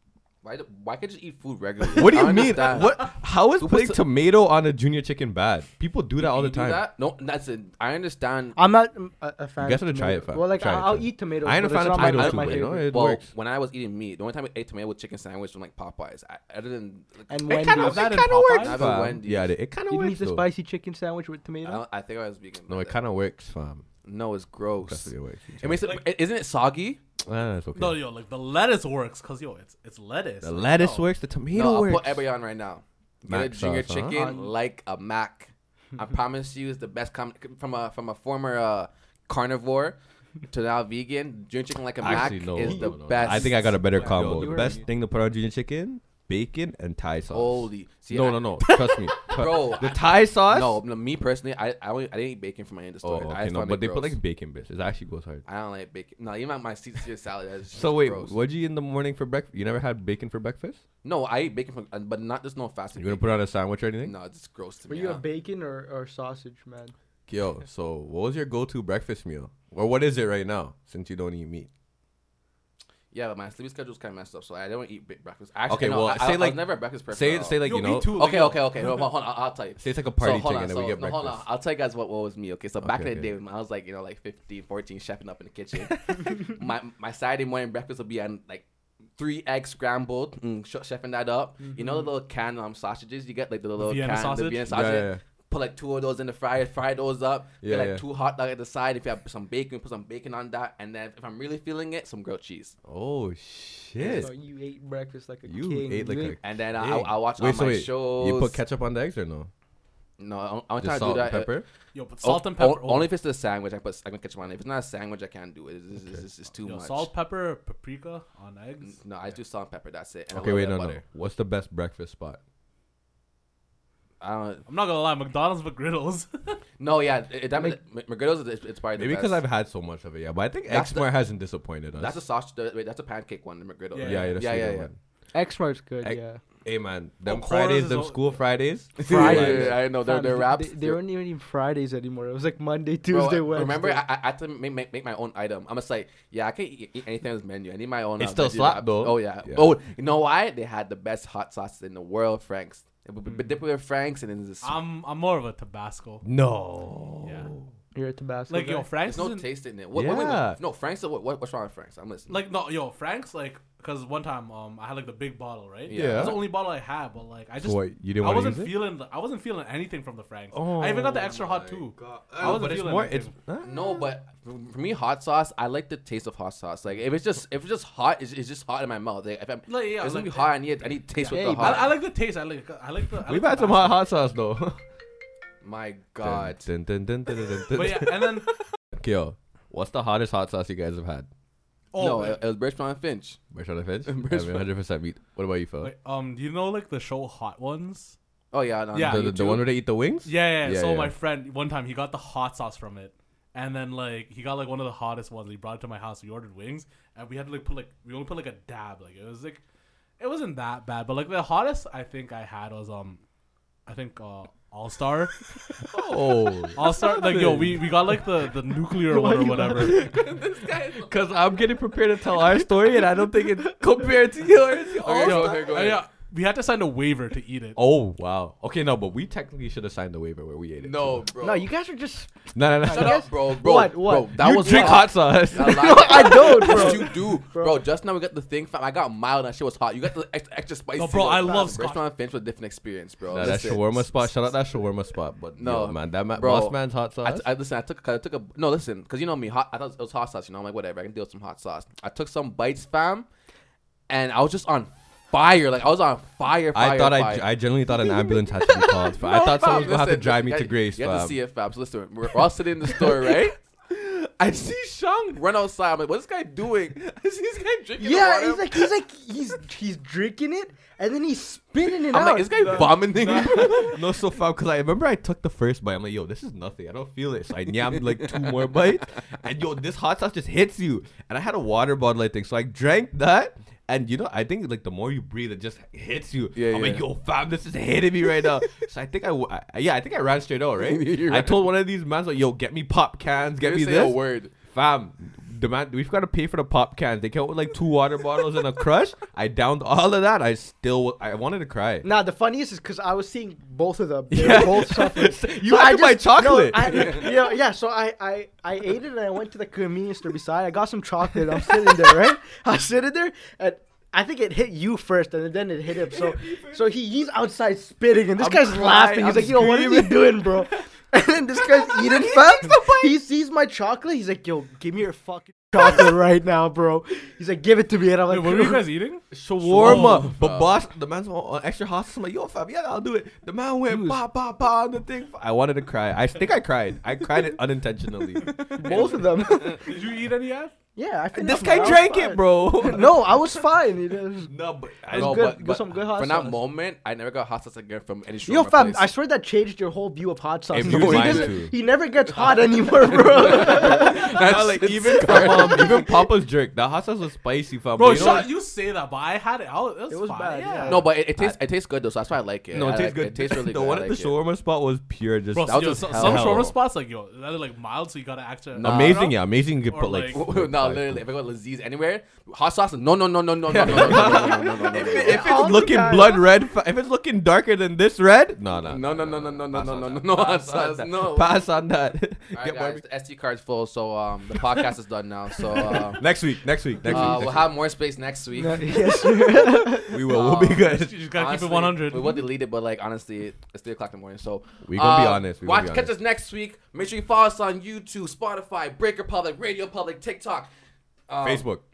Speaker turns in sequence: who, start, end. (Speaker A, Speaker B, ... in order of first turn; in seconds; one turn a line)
Speaker A: 0.4-4.0
Speaker B: 1.9-6.8
Speaker A: 6.2-8.6
Speaker C: 8.6-13.0
Speaker B: 9.6-13.3
Speaker A: 11.9-17.4
Speaker C: 17.3-18.2
Speaker D: 17.5-18.9
Speaker B: 17.5-20.5
Speaker A: 18.6-19.5
Speaker C: 19.9-21.8
Speaker A: 21.6-23.0
Speaker B: 22.7-23.8
Speaker A: 24.0-27.0
Speaker B: 24.8-25.8
Speaker B: 27.2-28.0
Speaker D: 27.7-31.1
Speaker B: 30.4-32.2
Speaker A: 31.5-40.0
Speaker B: 33.2-34.2
Speaker C: 34.1-34.5
Speaker A: 40.5-44.5
Speaker B: 42.0-50.8
Speaker C: 42.6-44.9
Speaker D: 43.9-44.7
Speaker A: 47.3-48.4
Speaker D: 48.6-49.3
Speaker A: 49.3-54.2
Speaker B: 53.0-55.4
Speaker A: 55.4-58.3
Speaker B: 57.7-60.8
Speaker A: 61.0-63.4
Speaker B: 63.0-64.1
Speaker A: 64.0-65.2
Speaker C: 64.9-66.9
Speaker B: 67.3-71.7
Speaker A: 73.1-88.6
Speaker B: 75.7-78.2
Speaker D: 77.6-78.9
Speaker B: 79.8-81.4
Speaker B: 82.8-83.3
Speaker A: 89.2-102.8
Speaker C: 91.7-92.0
Speaker D: 93.8-94.7
Speaker B: 94.7-95.2
Speaker B: 97.6-98.0
Speaker B: 102.8-104.3
Speaker A: 104.0-104.3
Speaker C: 104.0-106.4
Speaker B: 105.5-109.5
Speaker A: 106.4-108.6
Speaker A: 110.2-111.6
Speaker B: 110.8-111.6
Speaker D: 111.9-113.1
Speaker A: 112.2-117.1
Speaker D: 116.6-119.0
Speaker A: 118.8-121.0
Speaker B: 120.3-122.4
Speaker A: 124.2-124.6
Speaker D: 124.7-126.6
Speaker A: 126.8-129.4
Speaker B: 129.0-132.2
Speaker A: 130.7-131.1
Speaker A: 131.9-134.9
Speaker D: 133.9-134.4
Speaker B: 134.0-134.9
Speaker C: 135.3-136.4
Speaker B: 136.0-139.8
Speaker D: 137.2-138.4
Speaker A: 139.0-141.0
Speaker C: 139.0-144.0
Speaker A: 143.1-154.8
Speaker B: 148.2-149.7
Speaker D: 154.6-156.2
Speaker B: 156.2-157.7
Speaker D: 157.2-157.5
Speaker C: 157.9-158.9
Speaker D: 158.5-159.4
Speaker A: 159.1-162.4
Speaker B: 159.9-160.6
Speaker D: 162.3-173.3
Speaker A: 165.9-166.4
Speaker B: 165.9-166.4
Speaker B: 167.6-168.7
Speaker B: 170.5-173.7
Speaker A: 173.6-181.9
Speaker D: 179.7-180.5
Speaker C: 181.2-181.9
Speaker D: 181.5-184.0
Speaker B: 183.2-184.8
Speaker A: 185.6-186.7
Speaker B: 186.2-191.3
Speaker D: 187.7-188.5
Speaker D: 191.9-192.4
Speaker A: 192.0-193.4
Speaker B: 193.5-195.9
Speaker A: 194.1-194.7
Speaker D: 195.8-198.2
Speaker A: 198.5-199.7
Speaker D: 198.9-199.2
Speaker B: 199.0-201.1
Speaker D: 200.2-209.6
Speaker D: 210.2-213.2
Speaker D: 213.9-215.4
Speaker B: 215.9-218.2
Speaker D: 216.7-220.0
Speaker C: 219.1-220.1
Speaker B: 219.7-220.2
Speaker A: 219.9-221.1
Speaker B: 221.0-225.9
Speaker A: 225.0-226.0
Speaker D: 225.2-227.8
Speaker B: 227.8-231.2
Speaker A: 230.8-231.7
Speaker C: 231.4-237.8
Speaker B: 232.5-233.3
Speaker A: 232.9-244.3
Speaker B: 234.3-237.0
Speaker D: 241.0-242.0
Speaker B: 243.3-247.4
Speaker C: 243.4-243.7
Speaker A: 245.6-253.3
Speaker A: 254.1-257.5
Speaker B: 256.7-261.4
Speaker A: 259.2-268.9
Speaker B: 262.9-263.3
Speaker C: 268.0-273.1
Speaker A: 271.9-274.0
Speaker B: 272.6-302.1
Speaker A: 278.0-278.7
Speaker A: 286.5-287.0
Speaker A: 290.8-291.6
Speaker A: 293.6-294.5
Speaker C: 302.0-328.9
Speaker B: 304.3-307.5
Speaker B: 311.4-312.4
Speaker B: 315.9-316.9
Speaker B: 318.4-320.7
Speaker B: 321.7-323.1
Speaker D: 328.3-330.3
Speaker B: 329.3-339.6
Speaker A: 329.7-330.7
Speaker C: 333.9-334.2
Speaker C: 338.7-339.8
Speaker D: 338.8-340.7
Speaker C: 340.9-344.5
Speaker B: 341.3-343.6
Speaker B: 344.4-345.6
Speaker C: 345.1-346.6
Speaker A: 345.1-349.1
Speaker C: 348.4-354.2
Speaker B: 350.7-351.7
Speaker A: 350.7-351.6
Speaker A: 352.3-356.2
Speaker B: 353.2-358.5
Speaker D: 358.0-361.0
Speaker A: 358.1-358.4
Speaker C: 360.1-361.0
Speaker A: 360.9-364.4
Speaker B: 362.7-366.7
Speaker D: 365.5-370.4
Speaker A: 365.6-366.7
Speaker A: 368.7-369.2
Speaker B: 368.8-371.2
Speaker A: 370.3-375.6
Speaker B: 373.7-383.0
Speaker C: 375.1-376.5
Speaker A: 378.8-381.5
Speaker A: 382.5-386.3
Speaker B: 385.6-387.7
Speaker A: 387.0-389.4
Speaker C: 388.6-390.1
Speaker B: 389.9-391.1
Speaker A: 390.1-400.7
Speaker D: 390.8-392.4
Speaker B: 394.8-396.1
Speaker A: 401.3-401.6
Speaker B: 401.4-401.8